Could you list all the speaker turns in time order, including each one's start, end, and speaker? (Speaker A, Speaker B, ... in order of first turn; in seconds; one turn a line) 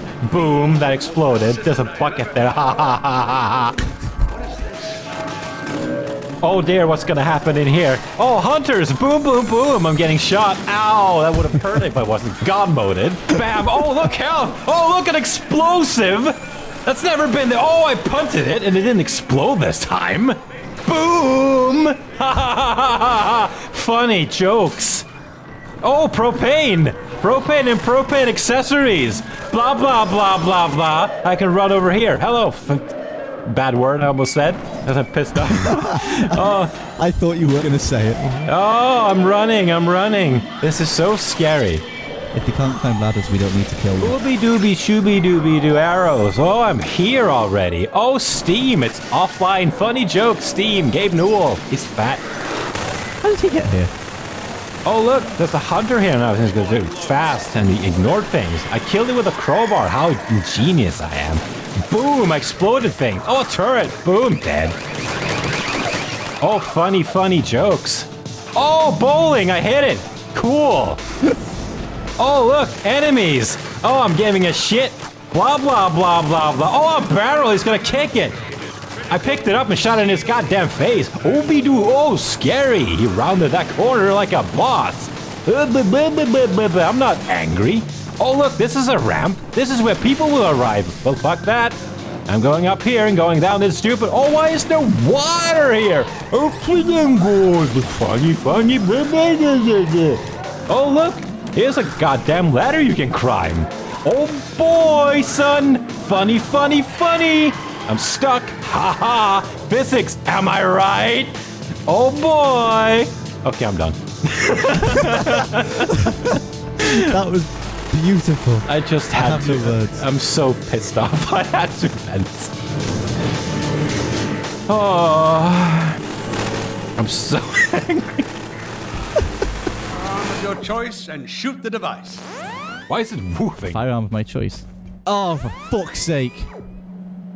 Speaker A: 0.2-3.8
Speaker A: 6.4-25.1
Speaker A: 25.8-36.8
Speaker B: 35.5-38.5
Speaker A: 38.4-41.8
Speaker B: 42.3-44.2
Speaker A: 44.0-52.2
Speaker B: 53.2-53.9
Speaker A: 54.8-64.8
Speaker A: 66.4-71.0
Speaker A: 72.2-78.3
Speaker A: 79.1-91.8
Speaker A: 92.3-116.2
Speaker B: 115.8-116.1
Speaker A: 116.8-117.1
Speaker B: 116.8-120.0
Speaker A: 118.7-122.5
Speaker A: 124.7-126.0
Speaker A: 127.0-128.3
Speaker C: 130.0-132.2
Speaker A: 132.9-133.8
Speaker B: 133.7-136.5